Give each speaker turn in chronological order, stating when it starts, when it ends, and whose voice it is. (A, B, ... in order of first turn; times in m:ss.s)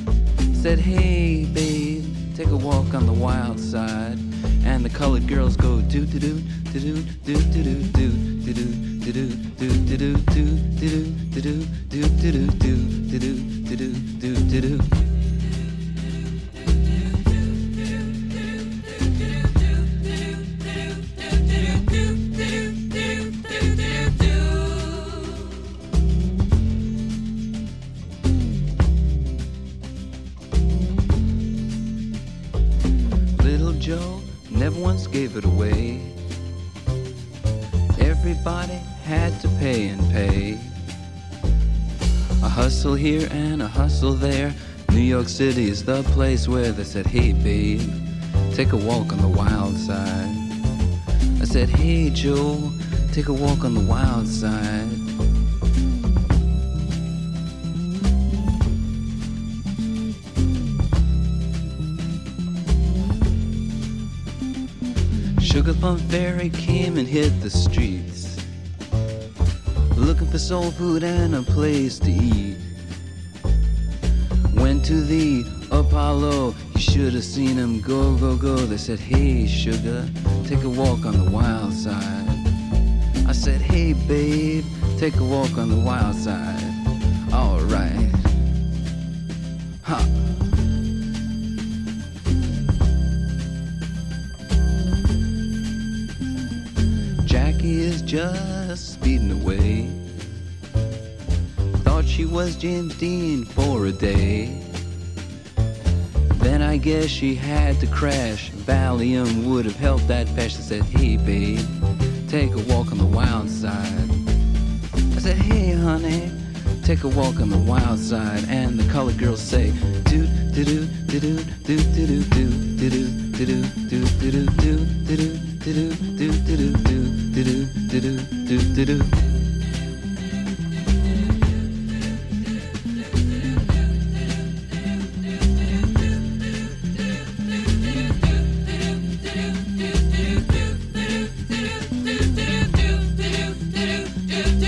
0:00.5-0:15.0 A
0:33.4-0:36.2 A
0:38.0-0:40.8 A
0:42.4-0:48.0 A
0:48.5-0:50.5 A
0:51.4-0:55.0 A
1:05.4-1:08.4 A
1:09.9-1:12.6 A
1:14.5-1:22.5 A
1:23.2-1:28.2 A
1:29.8-1:30.2 A
1:37.2-1:40.0 A
1:41.8-1:44.7 A
1:46.3-1:54.2 A
1:55.1-2:09.2 A